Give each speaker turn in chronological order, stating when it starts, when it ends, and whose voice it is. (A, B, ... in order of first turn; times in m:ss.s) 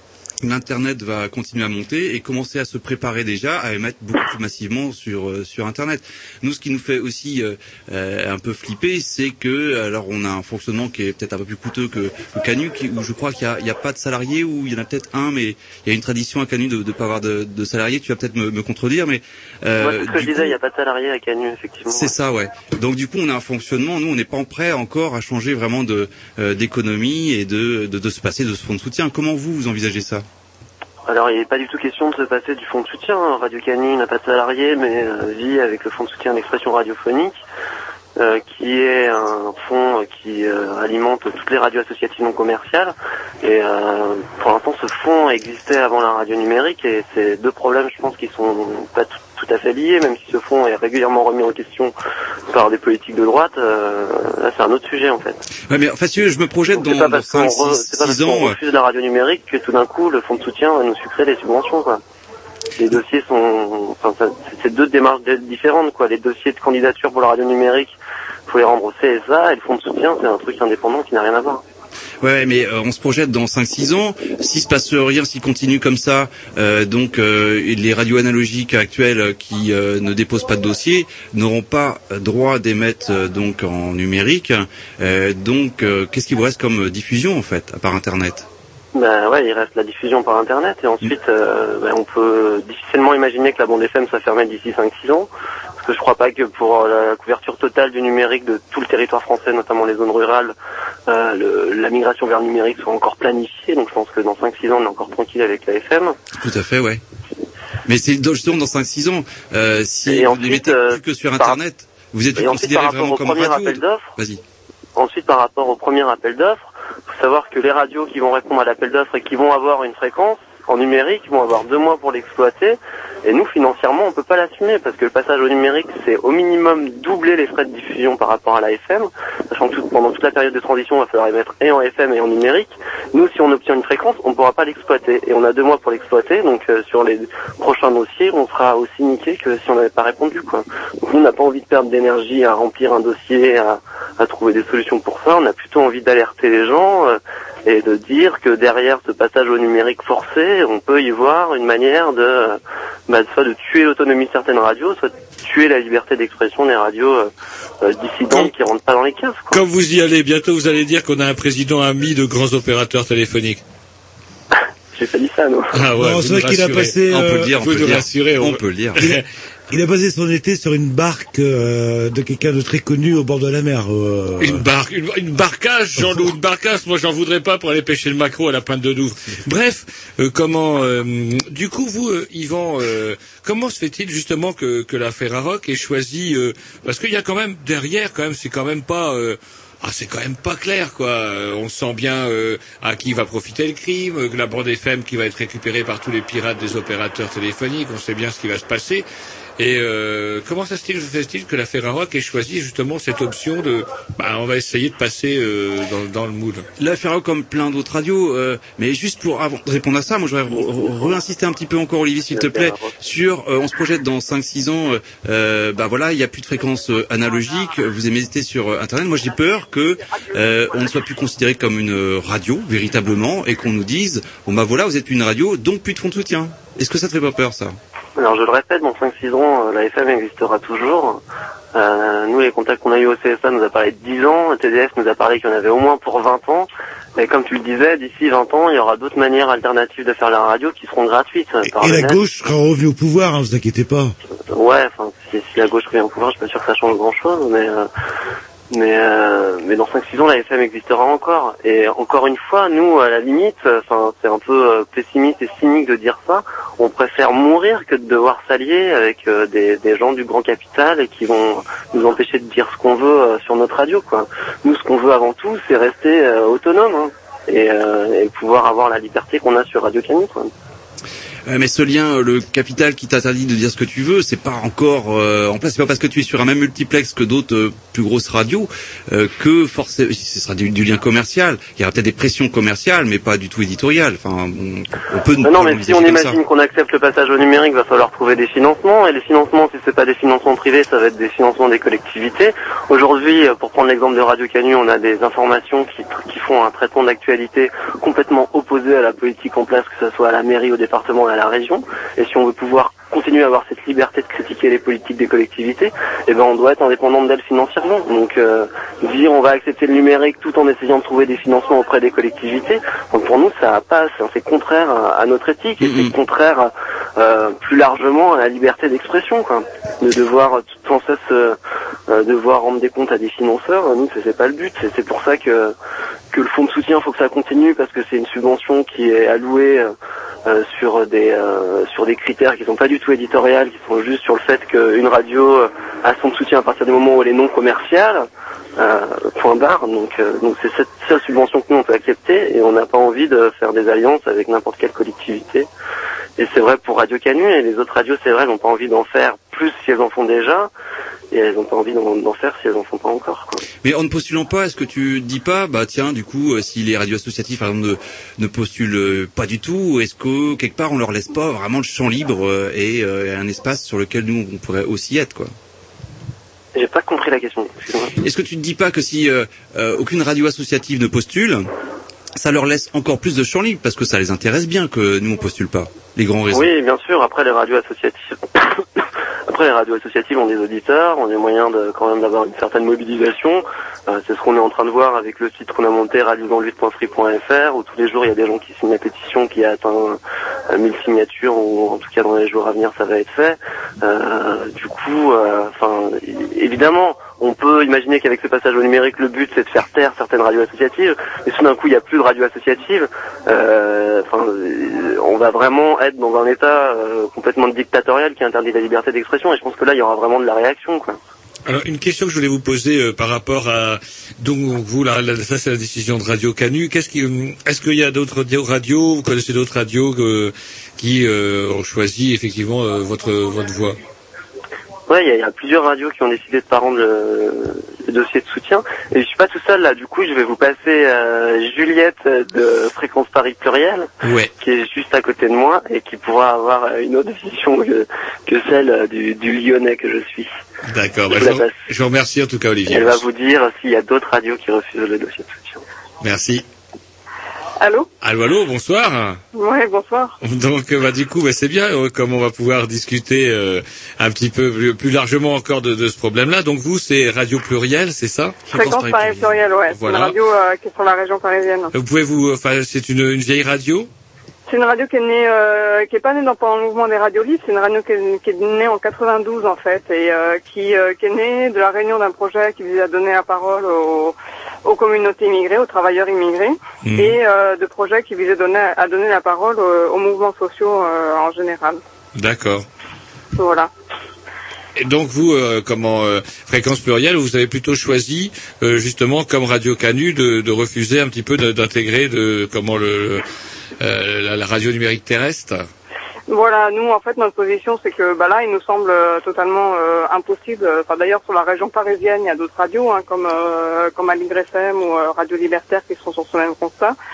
0:00.4-0:20.6 A
0:19.8-0:22.1 B
0:21.9-0:30.2 A
0:31.1-0:37.3 B
0:38.2-0:51.9 B
0:52.5-0:55.4 B
0:55.7-0:58.6 A
0:56.7-1:02.0 B
1:02.8-1:07.9 B
1:08.5-1:11.6 B
1:12.2-1:28.5 A
1:28.9-1:40.5 B
1:41.1-1:46.2 B
1:46.4-1:47.0 A
1:47.8-1:54.4 A
1:50.1-1:51.6 B
1:52.4-1:54.1 B
1:55.0-2:37.3 B
2:37.8-2:39.6 B
2:39.5-2:43.6 C
2:44.9-2:45.8 B
2:45.7-2:49.2 C
2:46.0-2:47.5 D
2:47.1-2:49.1 A
2:49.0-2:54.6 D
2:54.4-3:19.0 C
2:56.0-2:56.3 D
3:19.6-3:26.6 C
3:26.8-3:47.7 A
3:32.4-3:32.9 B
3:48.2-3:51.2 B
3:51.7-4:02.2 B
4:01.6-4:04.1 D
4:04.5-4:07.9 B
4:08.7-4:30.5 B
4:31.4-4:46.4 A
4:45.4-5:21.6 B
5:15.8-5:16.1 A
5:22.1-5:25.7 B
5:26.3-5:29.9 B
5:30.4-5:38.2 B
5:38.8-5:45.7 B
5:46.4-5:50.7 B
5:51.3-5:53.6 B
5:53.8-6:05.5 A
6:06.7-6:08.1 B
6:08.2-6:11.6 A
6:12.4-6:16.7 A
6:16.5-6:18.8 B
6:19.5-6:30.2 B
6:30.7-6:51.2 B
6:51.6-7:04.0 C
7:05.1-7:14.1 B
7:14.2-7:14.5 C
7:14.6-7:20.5 B
7:20.8-7:23.2 C
7:21.3-7:21.7 B
7:22.9-7:25.8 B
7:26.2-7:26.6 C
7:27.8-7:28.1 E
7:28.2-7:29.4 C
7:29.5-7:30.3 E
7:30.4-7:40.3 C
7:38.7-7:41.9 E
7:38.7-7:39.5 A
7:41.9-7:44.1 C
7:44.7-8:02.0 E
7:57.0-7:57.4 C
8:02.4-8:02.8 C
8:03.6-8:03.9 E
8:05.0-8:13.4 C
8:14.0-8:15.9 C
8:16.5-8:27.2 E